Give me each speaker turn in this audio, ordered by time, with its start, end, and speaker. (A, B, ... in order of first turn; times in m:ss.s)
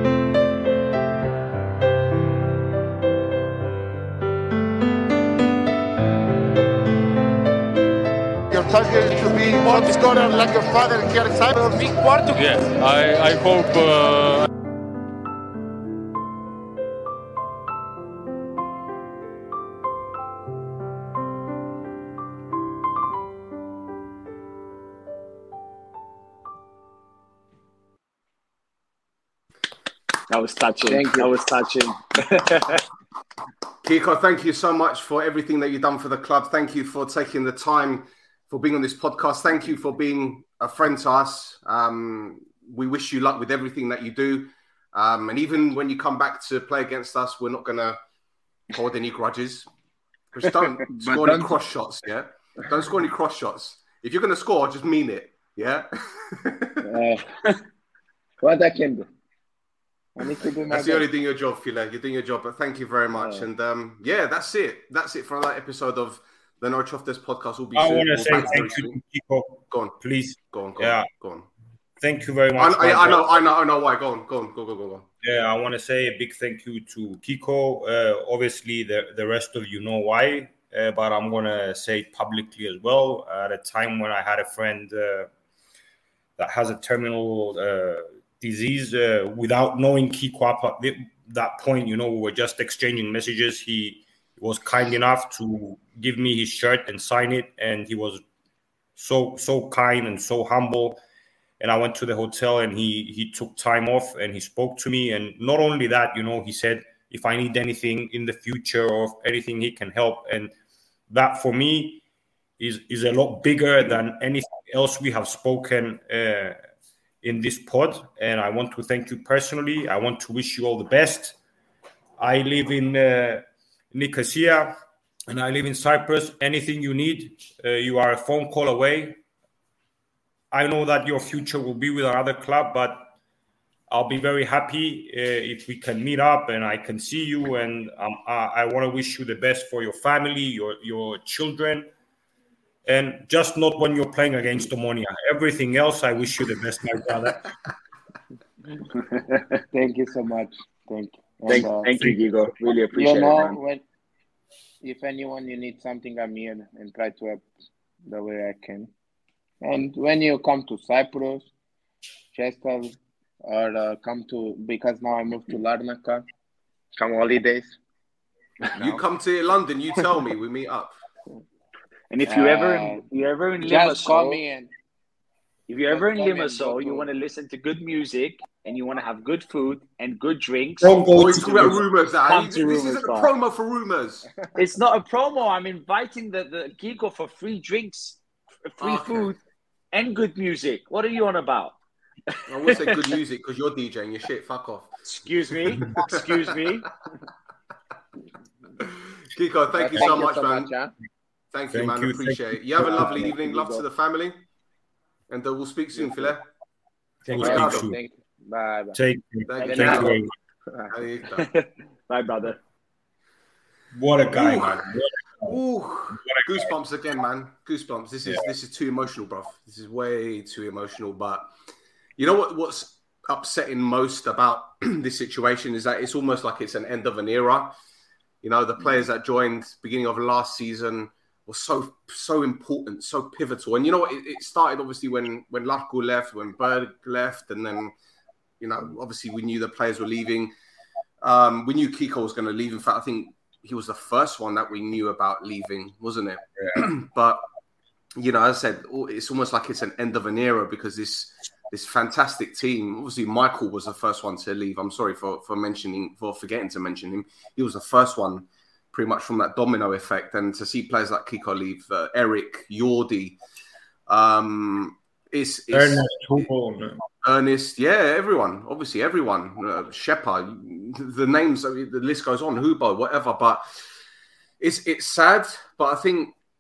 0:08.5-0:12.2 A
0:12.3-0:14.5 B
0:30.3-0:32.8 C
0:30.9-0:31.3 D
0:33.8-0:48.0 E
0:48.7-0:49.7 E
0:50.3-0:56.9 E
0:50.9-0:51.6 D
0:56.8-0:57.2 D
0:58.4-0:59.1 D
1:00.2-1:01.1 D
1:00.7-1:09.0 E
1:07.8-1:11.1 F
1:09.7-1:10.0 E
1:10.5-1:11.5 E
1:12.0-1:13.3 F
1:12.6-1:15.1 E
1:15.2-1:25.3 F
1:26.4-1:38.2 F
1:39.0-1:41.0 F
1:41.6-1:50.5 F
1:51.1-1:52.0 F
1:52.6-1:56.6 F
1:57.2-2:01.4 F
2:02.2-2:04.8 F
2:05.3-2:09.2 F
2:10.5-2:13.1 F
2:13.9-2:21.9 F
2:22.9-2:27.5 F
2:29.7-2:31.9 D
2:31.5-2:33.6 C
2:32.9-2:33.8 D
2:34.8-2:37.4 D
2:38.1-2:38.9 D
2:39.6-2:41.5 D
2:42.3-2:46.2 D
2:47.0-2:47.8 D
2:48.7-2:51.0 E
2:52.1-2:54.4 C
2:52.3-2:53.0 D
2:53.6-2:54.7 D
2:55.7-3:03.3 C
2:55.9-2:57.1 D
3:00.8-3:01.8 F
3:01.1-3:04.3 E
3:04.6-3:09.4 C
3:08.8-3:09.3 E
3:09.9-3:11.8 C
3:12.3-3:13.2 C
3:12.5-3:15.1 E
3:15.0-3:16.9 C
3:15.8-3:16.3 E
3:18.8-3:20.7 E
3:19.8-3:20.9 D
3:21.5-3:24.4 E
3:21.7-3:23.2 F
3:22.8-3:23.8 C
3:25.3-3:26.5 E
3:27.2-3:28.0 F
3:27.3-3:27.9 E
3:27.4-3:29.0 D
3:29.0-3:30.3 F
3:29.5-3:30.2 E
3:29.6-3:30.1 C
3:29.6-3:30.1 D
3:30.9-3:31.5 E
3:31.3-3:32.6 C
3:33.9-3:35.6 F
3:34.3-3:34.8 E
3:35.4-3:41.5 E
3:36.1-3:36.7 F
3:42.2-3:47.8 E
3:48.4-3:57.9 E
3:58.6-4:00.5 E
4:01.2-4:07.4 E
4:08.2-4:23.4 E
4:24.1-4:26.5 E
4:25.7-4:27.0 F
4:27.2-4:33.8 E
4:34.6-4:36.4 E